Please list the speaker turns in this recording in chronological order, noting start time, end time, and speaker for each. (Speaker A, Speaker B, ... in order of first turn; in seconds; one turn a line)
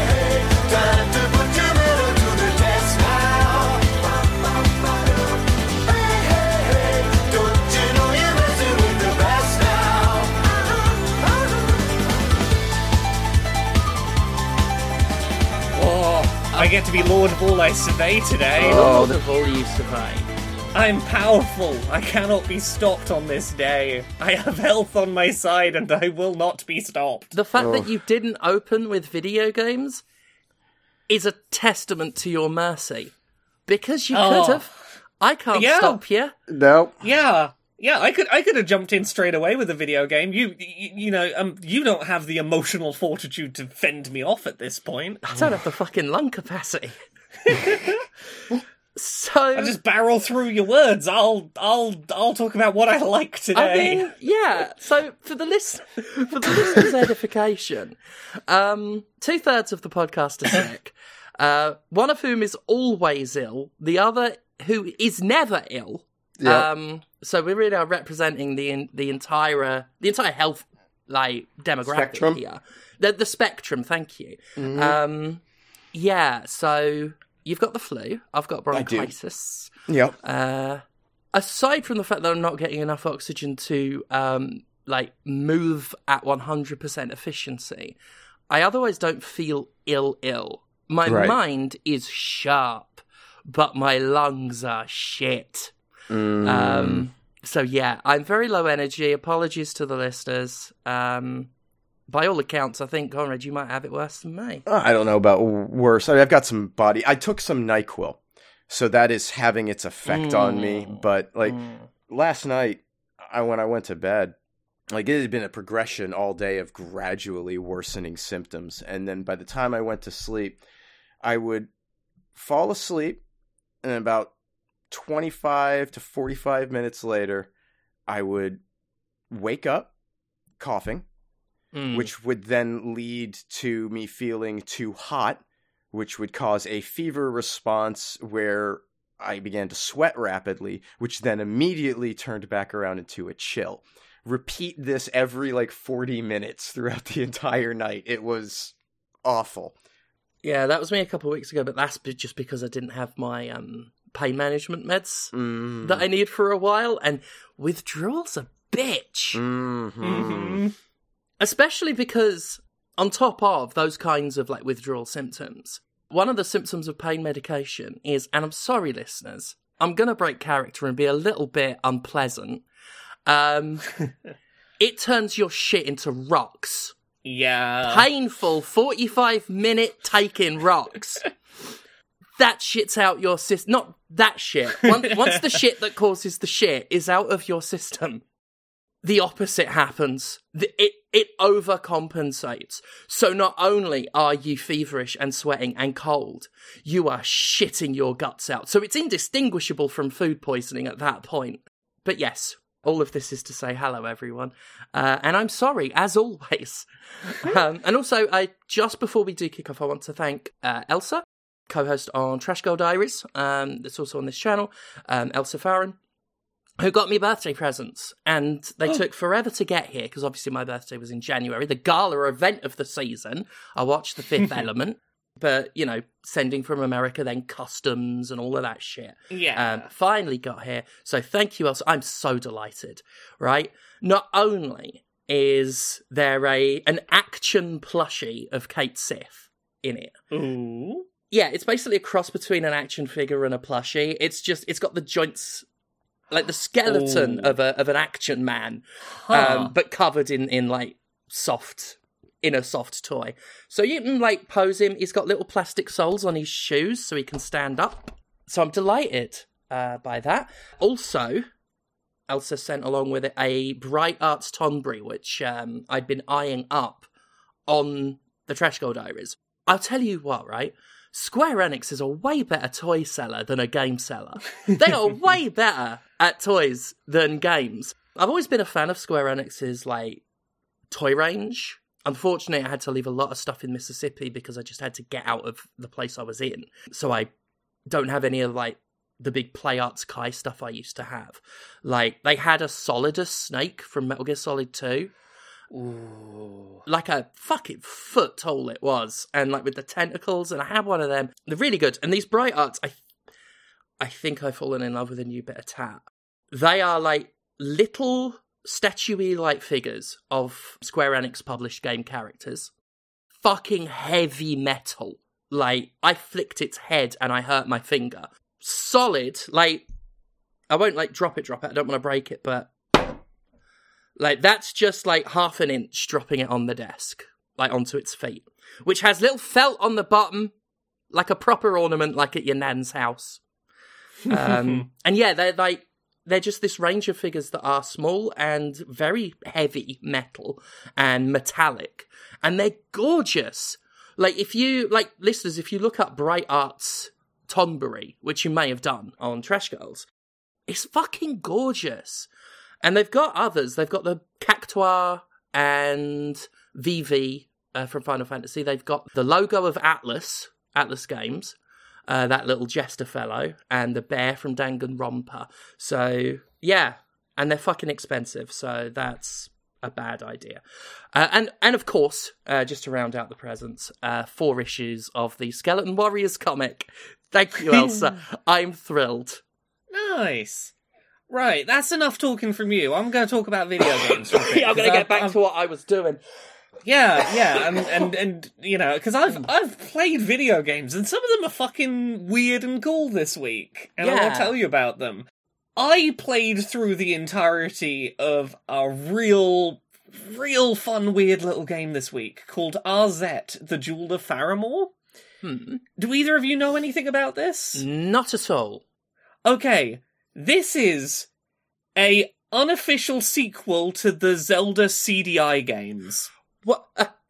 Speaker A: 1.2-3.8
Speaker A: 7.6-10.1
Speaker B: 15.7-18.9
Speaker A: 18.6-19.2
Speaker C: 18.6-20.3
Speaker B: 20.7-27.4
Speaker C: 27.3-30.0
Speaker A: 27.6-27.9
Speaker C: 31.1-33.1
Speaker C: 33.7-34.7
Speaker B: 34.1-34.8
Speaker C: 35.2-36.3
Speaker B: 35.5-36.0
Speaker A: 36.5-37.0
Speaker B: 37.0-45.5
Speaker C: 45.3-47.0
Speaker B: 47.5-48.1
Speaker C: 48.5-49.8
Speaker B: 49.6-54.1
Speaker C: 53.5-58.0
Speaker C: 58.5-75.4
Speaker A: 66.4-66.7
Speaker A: 71.9-72.4
Speaker A: 74.6-75.0
Speaker C: 75.9-79.7
Speaker A: 78.7-79.1
Speaker A: 79.9-80.2
Speaker C: 80.2-80.8
Speaker C: 81.3-88.0
Speaker C: 88.5-95.7
Speaker A: 91.1-91.4
Speaker A: 96.1-97.1
Speaker C: 96.4-101.5
Speaker C: 102.1-104.6
Speaker A: 104.7-114.3
Speaker C: 110.1-111.9
Speaker A: 114.9-120.6
Speaker A: 121.2-121.7
Speaker A: 122.3-123.2
Speaker A: 123.8-124.3
Speaker A: 124.9-127.5
Speaker A: 128.1-128.6
Speaker A: 129.3-129.9
Speaker A: 130.6-131.1
Speaker C: 131.7-132.1
Speaker A: 131.9-149.8
Speaker C: 150.4-159.4
Speaker A: 155.3-156.1
Speaker A: 159.3-160.6
Speaker B: 160.0-160.8
Speaker C: 161.4-172.6
Speaker C: 173.3-173.9
Speaker C: 174.8-176.9
Speaker B: 177.2-178.1
Speaker C: 177.9-181.3
Speaker C: 182.4-188.2
Speaker B: 185.0-185.4
Speaker C: 189.0-216.0
Speaker C: 216.8-240.2
Speaker B: 229.3-229.9
Speaker B: 240.3-241.1
Speaker C: 241.3-245.7
Speaker C: 246.3-261.5
Speaker B: 246.9-247.6
Speaker B: 249.2-249.8
Speaker C: 262.3-267.1
Speaker C: 267.7-280.2
Speaker C: 280.9-287.3
Speaker C: 287.9-295.1
Speaker B: 295.7-296.8
Speaker C: 296.9-303.0
Speaker C: 304.0-312.7
Speaker C: 313.4-319.8
Speaker C: 320.7-323.1
Speaker C: 324.2-330.5
Speaker C: 331.1-333.4
Speaker B: 334.3-334.8
Speaker C: 334.3-350.1
Speaker C: 350.7-352.3
Speaker C: 352.8-361.6
Speaker C: 362.1-370.6
Speaker C: 371.1-379.4
Speaker B: 377.7-378.1
Speaker B: 379.9-380.7
Speaker B: 381.3-385.4
Speaker C: 383.8-386.2
Speaker B: 386.9-404.9
Speaker C: 387.3-388.1
Speaker C: 394.0-394.6
Speaker C: 405.4-405.8
Speaker B: 406.0-407.9
Speaker C: 407.8-408.8
Speaker B: 409.4-411.3
Speaker B: 412.0-416.3
Speaker C: 416.6-417.1